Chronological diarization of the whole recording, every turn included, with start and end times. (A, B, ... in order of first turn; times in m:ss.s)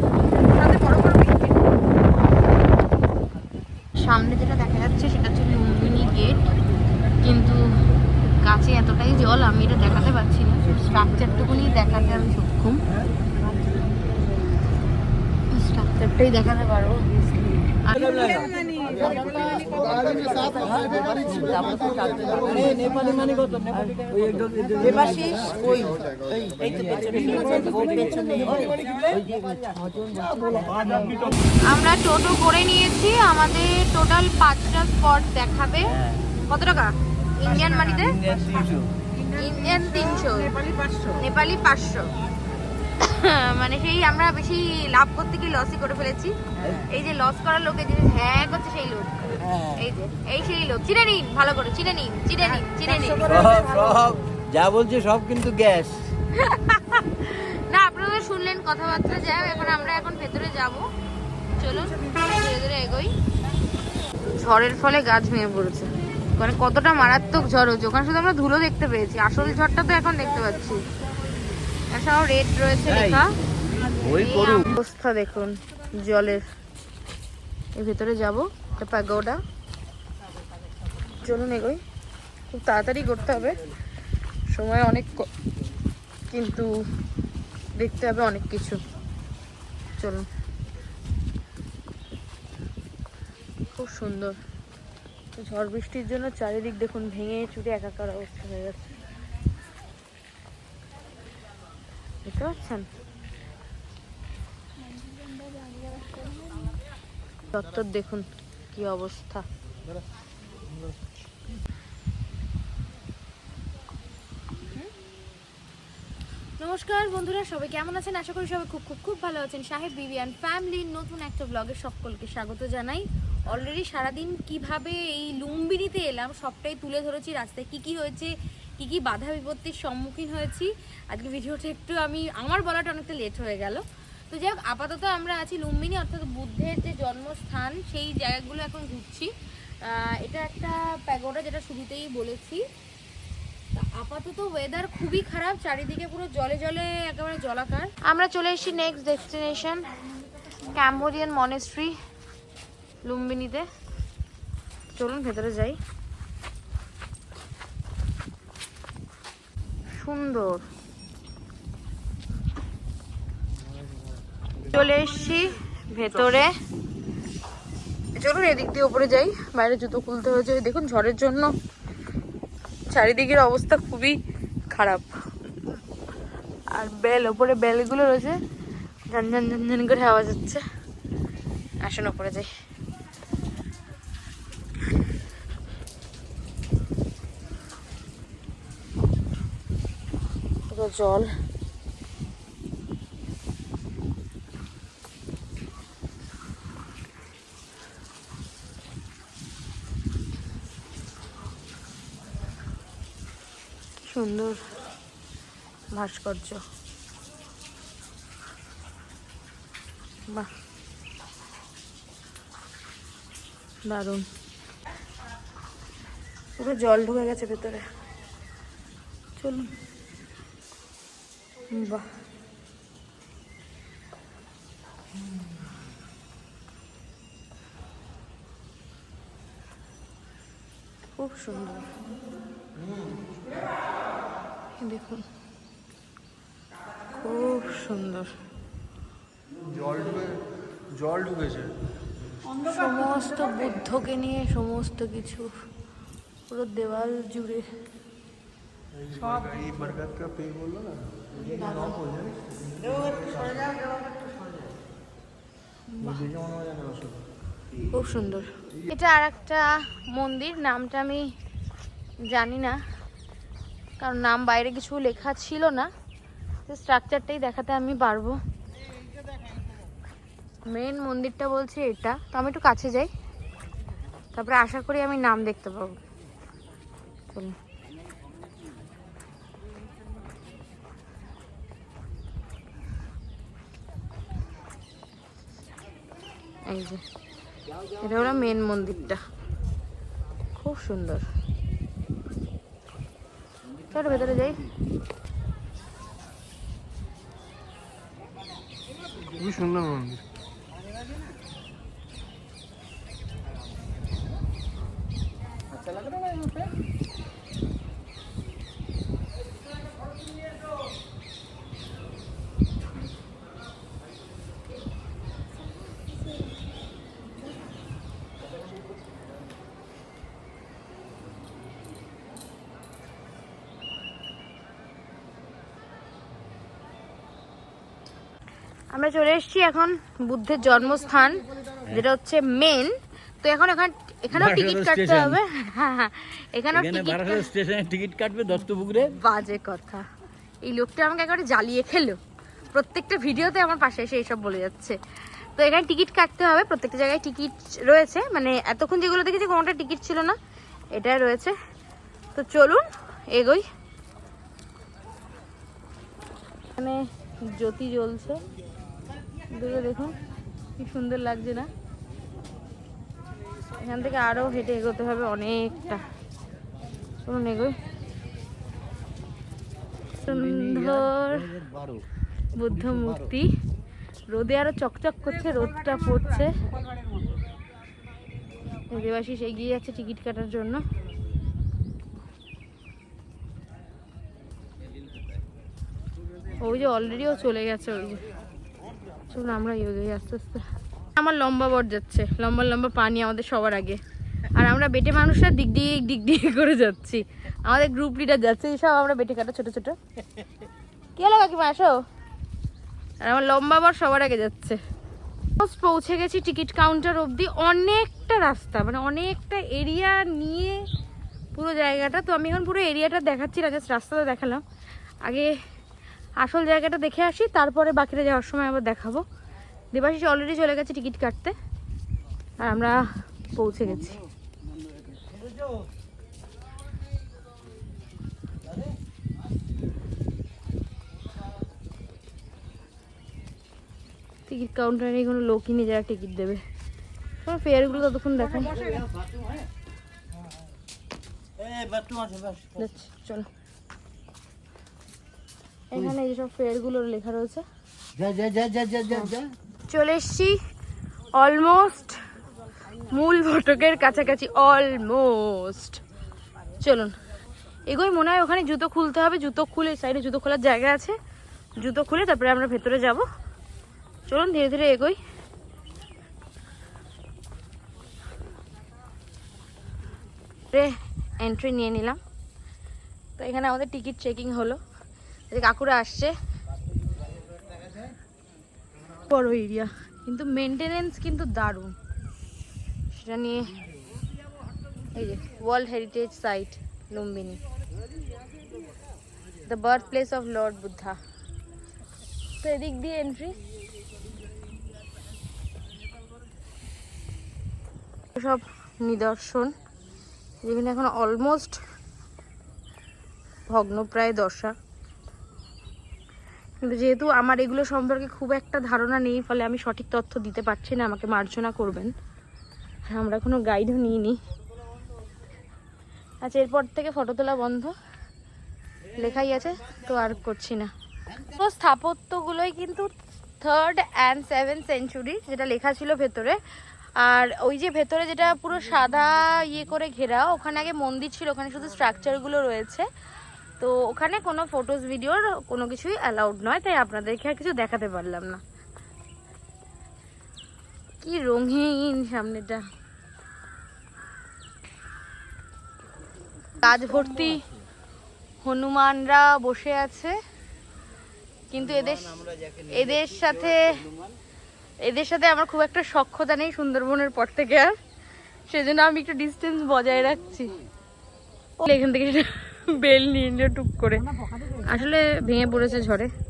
0:00.4-0:01.6 A
0:04.0-0:06.5 A
0:07.2-0:07.6 A
0:08.4-0:12.8 A
0:15.5-0:18.3 A
0:18.1-0:18.5 B
0:19.5-0:31.3 B
0:31.6-0:38.2 A
0:38.0-0:38.9 B
0:39.2-0:42.1 A
0:43.0-0:53.4 A
0:49.5-0:49.8 B
0:53.2-0:56.1 B
0:56.3-1:00.9 A
1:01.6-1:03.2 A
1:04.4-1:10.9 A
1:11.9-1:13.3 A
1:12.9-1:13.2 B
1:13.9-1:14.7 B
1:14.1-1:16.4 A
1:17.7-1:19.4 A
1:21.2-1:21.8 A
1:22.5-1:23.6 A
1:24.5-1:25.3 A
1:26.3-1:26.8 A
1:27.8-1:28.8 A
1:30.0-1:30.3 A
1:33.8-1:34.4 A
1:35.4-1:39.0 A
1:42.2-1:42.9 A
1:47.5-1:49.4 A
1:56.6-2:22.7 A
2:23.7-2:32.0 A
2:33.0-2:33.7 A
2:34.9-2:35.8 A
2:39.9-2:40.6 A
2:44.6-2:46.5 A
2:48.2-2:51.5 A
2:52.9-2:54.2 A
2:54.7-2:55.1 A
2:56.7-2:58.4 A
2:59.1-3:00.6 A
3:01.8-3:02.5 A
3:10.7-3:11.3 A
3:24.0-3:24.6 A
3:25.9-3:26.6 A
3:33.8-3:34.2 A
3:36.6-3:37.8 A
3:39.4-3:39.7 A
3:41.7-3:42.1 A
3:51.2-3:51.9 A
3:54.8-3:55.2 A
3:57.2-3:58.3 A
3:59.8-4:00.4 C
4:01.0-4:01.8 C
4:02.5-4:05.5 A
4:06.5-4:07.7 A
4:09.2-4:11.1 C
4:11.3-4:12.3 A
4:15.9-4:16.4 A
4:16.5-4:17.1 C
4:17.9-4:21.3 A
4:22.2-4:22.8 A
4:24.0-4:25.9 A
4:26.7-4:28.4 A
4:30.7-4:33.1 A
4:34.3-4:36.0 A
4:46.7-4:47.0 A
4:48.0-4:49.2 A
4:50.6-4:51.3 A
4:53.9-4:54.6 A
4:59.7-5:00.0 C
5:28.9-5:37.5 A
5:34.3-5:35.4 B
5:36.7-5:39.1 B
5:39.1-5:40.1 A
5:40.6-5:42.2 A
5:42.7-5:45.0 A
5:45.6-5:50.4 A
5:51.0-5:51.6 A
5:52.3-5:53.7 A
5:56.8-5:58.4 A
5:59.5-6:00.2 A
6:00.8-6:01.7 A
6:03.8-6:06.0 A
6:07.2-6:07.8 A
6:10.2-6:11.5 A
6:10.3-6:12.0 B
6:12.6-6:13.5 A
6:14.3-6:16.6 A
6:18.9-6:20.8 A
6:26.6-6:28.3 A
6:29.3-6:30.6 A
6:31.2-6:34.0 A
6:34.5-6:40.0 A
6:41.2-6:42.0 A
6:43.2-6:44.8 A
6:45.6-6:50.8 A
6:51.5-6:54.6 A
6:55.2-6:55.5 A
6:56.4-6:59.2 A
6:59.9-7:01.6 A
7:02.6-7:03.0 A
7:03.5-7:04.2 A
7:14.5-7:16.6 A
7:17.4-7:18.9 A
7:18.8-7:19.6 B
7:21.6-7:22.7 B
7:22.8-7:23.5 A
7:25.9-7:27.6 A
7:28.2-7:29.5 B
7:29.1-7:29.4 A
7:29.9-7:30.6 A
7:31.4-7:32.2 A
7:32.9-7:36.0 A
7:36.8-7:37.2 A
7:37.9-7:41.2 A
7:41.8-7:43.3 A
7:44.3-7:45.2 A
7:50.7-7:52.2 A
7:53.4-7:54.8 A
7:55.5-7:56.4 A
7:59.3-8:02.0 A
8:03.1-8:03.8 A
8:05.1-8:07.6 A
8:09.6-8:11.2 A
8:12.6-8:13.6 A
8:18.3-8:19.7 A
8:20.6-8:21.8 A
8:23.7-8:24.8 A
8:26.8-8:32.1 A
8:33.1-8:34.4 A
8:36.4-8:38.0 A
8:39.1-8:46.6 A
8:47.2-8:53.1 A
8:53.8-8:58.6 A
9:01.2-9:02.8 A
9:06.8-9:07.6 A
9:08.6-9:10.4 A
9:11.7-9:14.0 A
9:12.4-9:12.8 B
9:15.0-9:17.9 A
9:18.7-9:20.8 A
9:21.8-9:26.3 A